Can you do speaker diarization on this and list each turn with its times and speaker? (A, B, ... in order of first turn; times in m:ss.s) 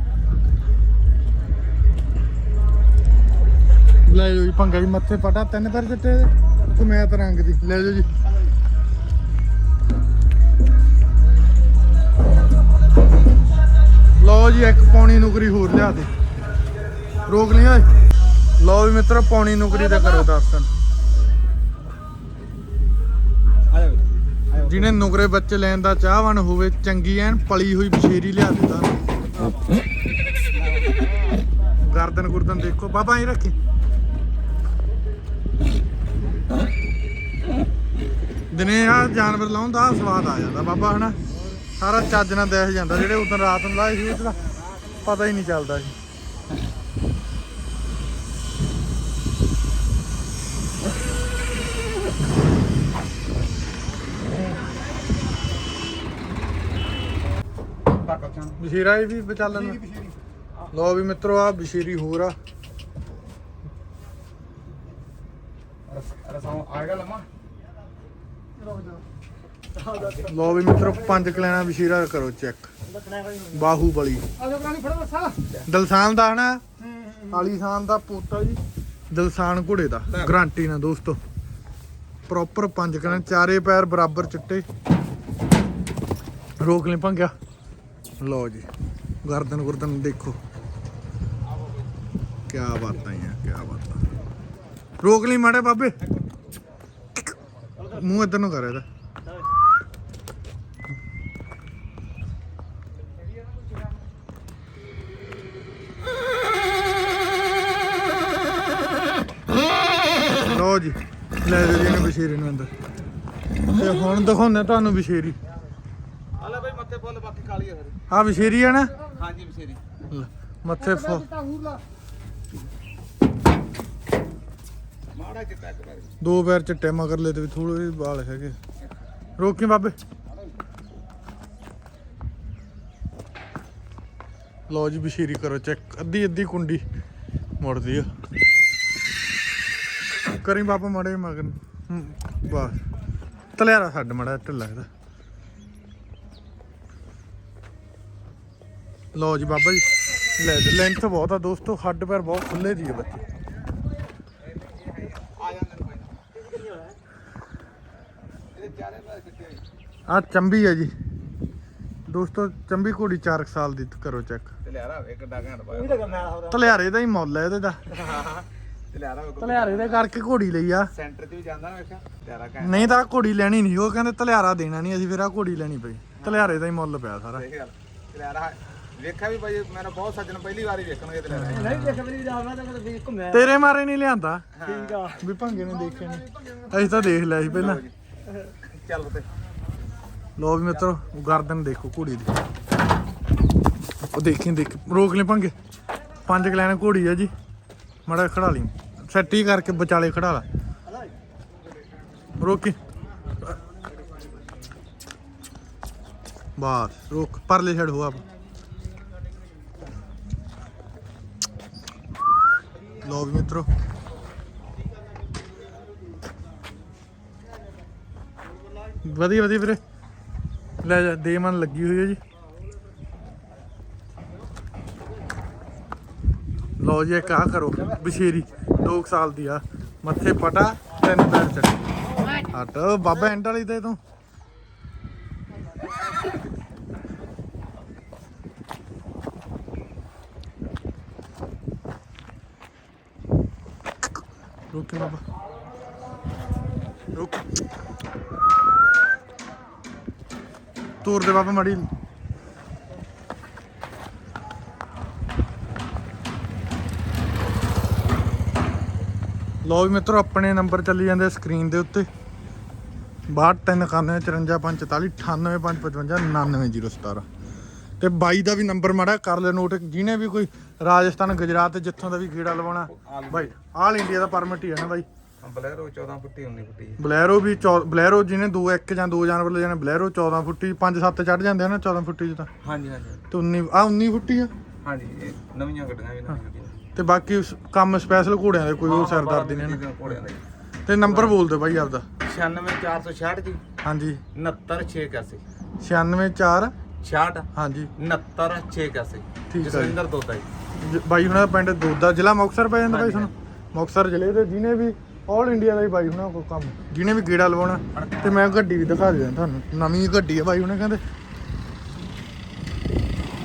0:04.0-0:08.1 A
0:14.2-0:16.1 A
0:17.2-0:17.9 A
0:18.6-0:20.7 A
0:23.7-0:25.0 B
0:24.6-0:29.0 A
0:31.8-0:33.5 A
0:38.5-0:41.2 A
0:41.8-0:44.4 A
0:45.0-0:45.9 A
0:57.9-0:58.6 B
0:58.6-0:59.8 A
1:00.7-1:02.4 A
1:05.9-1:07.3 B
1:09.9-1:10.2 B
1:10.2-1:12.7 A
1:13.5-1:14.2 A
1:14.5-1:15.3 C
1:15.6-1:16.6 A
1:17.2-1:18.6 A
1:19.1-1:21.2 A
1:20.1-1:20.4 B
1:22.3-1:24.6 A
1:26.6-1:27.3 A
1:28.2-1:28.7 A
1:29.2-1:30.4 A
1:32.5-1:34.0 A
1:35.0-1:36.0 A
1:37.9-1:38.8 A
1:50.4-1:52.7 A
1:53.7-1:55.4 A
1:56.4-1:58.0 B
1:58.1-1:58.9 A
1:59.1-1:59.8 B
2:00.1-2:01.5 A
2:01.5-2:01.8 C
2:05.1-2:06.2 B
2:06.2-2:08.6 A
2:09.4-2:10.0 A
2:14.7-2:16.8 A
2:17.6-2:18.1 A
2:20.3-2:22.8 A
2:23.5-2:24.9 A
2:29.1-2:33.2 A
2:34.6-2:36.2 B
2:38.5-2:39.6 B
2:40.1-2:40.9 A
2:42.1-2:44.5 A
2:44.6-2:46.5 B
2:46.5-2:47.8 A
2:47.9-2:50.1 B
2:49.4-2:50.9 A
2:50.9-2:53.0 B
2:52.6-2:57.4 A
2:56.2-2:56.6 B
2:57.3-3:01.9 B
3:01.3-3:02.1 A
3:01.5-3:03.4 C
3:03.3-3:04.5 A
3:04.5-3:05.2 B
3:04.8-3:05.1 C
3:05.2-3:07.8 A
3:07.4-3:07.9 B
3:08.6-3:09.3 B
3:10.4-3:12.3 A
3:14.1-3:15.5 A
3:16.2-3:17.3 A
3:18.0-3:20.4 A
3:22.4-3:22.8 A
3:26.6-3:28.2 A
3:33.0-3:33.7 A
3:39.0-3:39.8 A
3:40.8-3:42.2 A
3:46.8-3:51.8 A
3:52.4-3:54.0 A
4:04.7-4:05.2 A
4:07.1-4:07.4 A
4:11.0-4:11.8 A
4:19.6-4:22.1 A
4:23.3-4:27.2 A
4:28.0-4:35.1 A
4:32.9-4:33.5 B
4:35.4-4:37.0 B
4:37.0-4:42.5 A
4:42.6-4:43.2 B
4:43.3-4:44.5 A
4:44.8-4:46.9 B
4:46.9-4:49.8 A
4:48.8-4:50.4 B
4:50.8-4:52.0 A
4:51.0-4:51.4 B
4:52.2-4:53.6 B
4:53.8-4:54.2 A
4:54.3-4:55.4 B
4:55.8-4:56.7 A
4:57.0-5:00.5 B
4:57.5-4:57.9 A
4:59.5-5:00.0 A
5:00.8-5:11.0 A
5:02.9-5:03.3 B
5:07.9-5:08.7 B